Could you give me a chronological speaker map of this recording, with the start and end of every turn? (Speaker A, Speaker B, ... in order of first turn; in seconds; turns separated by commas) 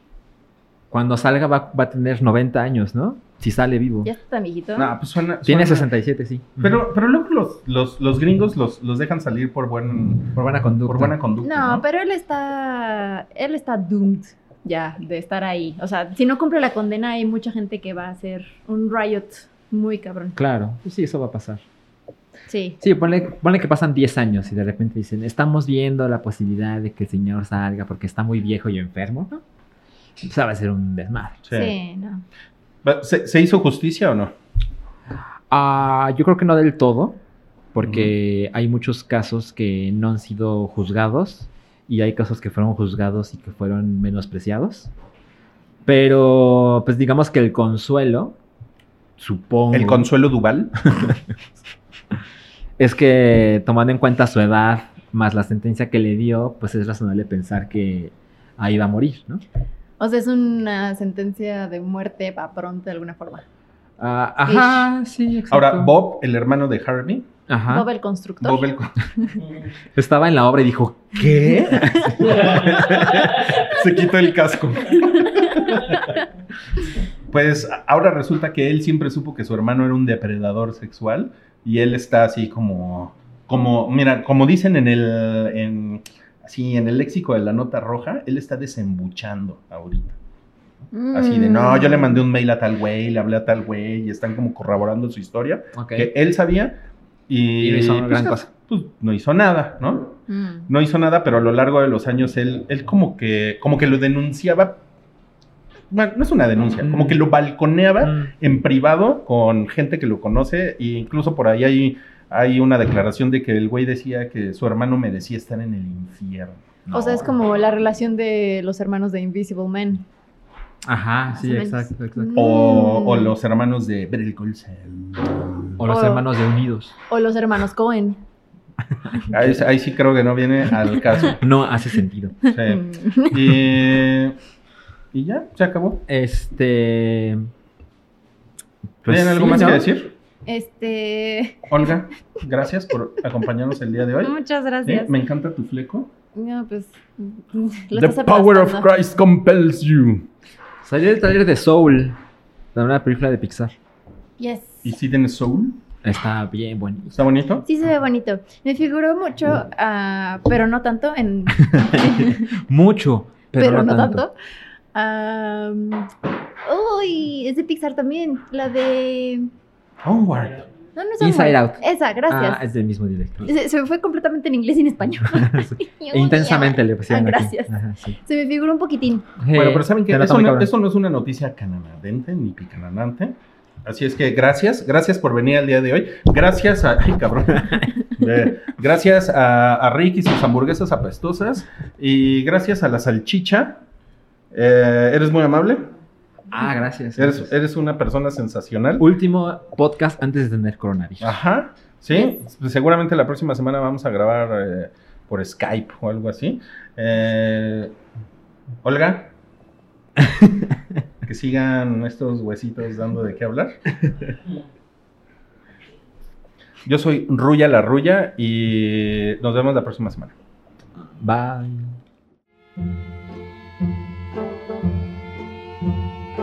Speaker A: 0.9-4.1, Speaker B: 4.0-4.9, Speaker C: 4.8-5.9, Speaker A: 5.4-6.8, Speaker C: 6.6-11.9, Speaker A: 10.3-11.2, Speaker B: 11.4-20.4, Speaker A: 20.4-21.6, Speaker B: 22.5-22.8, Speaker A: 22.8-29.4, Speaker A: 30.2-31.4, Speaker C: 31.4-31.8, Speaker B: 31.5-32.2, Speaker C: 32.8-34.3, Speaker A: 35.5-37.2, Speaker A: 37.7-44.9, Speaker C: 37.8-38.1, Speaker A: 45.9-48.4, Speaker A: 49.2-50.1, Speaker C: 49.7-50.8, Speaker A: 52.8-59.4, Speaker B: 60.0-63.5, Speaker A: 64.0-66.0, Speaker B: 64.5-64.9, Speaker C: 65.5-67.3, Speaker A: 67.5-67.9, Speaker B: 67.7-68.7, Speaker C: 68.4-68.9, Speaker A: 70.0-73.5, Speaker C: 71.2-76.0, Speaker B: 75.2-76.1, Speaker C: 77.3-90.2, Speaker B: 90.9-92.2, Speaker C: 91.1-96.8, Speaker A: 95.7-96.1, Speaker C: 97.3-104.8, Speaker A: 97.6-98.5, Speaker B: 100.3-100.7, Speaker C: 105.9-116.6, Speaker A: 106.8-107.2, Speaker A: 108.0-108.3, Speaker A: 116.9-117.3, Speaker B: 116.9-120.0, Speaker A: 120.9-122.6, Speaker B: 121.4-123.3, Speaker C: 122.3-125.8, Speaker A: 125.8-126.9, Speaker B: 125.9-126.2, Speaker B: 127.1-128.2, Speaker A: 129.1-129.6, Speaker C: 129.3-131.4, Speaker A: 131.4-132.3, Speaker B: 132.5-133.6, Speaker C: 132.5-134.4, Speaker C: 135.1-136.0, Speaker A: 136.1-137.5, Speaker A: 139.0-139.9, Speaker C: 139.1-140.1, Speaker B: 140.5-141.8, Speaker C: 141.7-146.1, Speaker B: 144.2-145.1, Speaker B: 146.3-148.9, Speaker C: 147.9-150.3, Speaker A: 150.8-152.2, Speaker A: 152.8-153.7, Speaker B: 154.4-154.9, Speaker C: 154.8-155.8, Speaker A: 156.0-157.2, Speaker C: 157.1-157.7, Speaker B: 157.7-162.5, Speaker A: 161.6-164.2, Speaker B: 163.6-164.3, Speaker B: 164.9-166.1, Speaker B: 166.7-169.5, Speaker C: 170.0-170.7, Speaker B: 171.0-172.6, Speaker A: 171.2-173.5, Speaker B: 173.4-179.3, Speaker A: 175.3-178.2, Speaker A: 179.4-180.7, Speaker C: 179.5-183.3, Speaker C: 183.8-193.8, Speaker C: 194.5-195.9, Speaker A: 196.5-197.5, Speaker C: 197.2-199.1, Speaker A: 199.0-201.4, Speaker C: 201.2-207.9, Speaker C: 208.8-209.3, Speaker A: 210.4-210.6, Speaker C: 211.2-213.8, Speaker C: 216.8-220.3, Speaker A: 221.2-221.9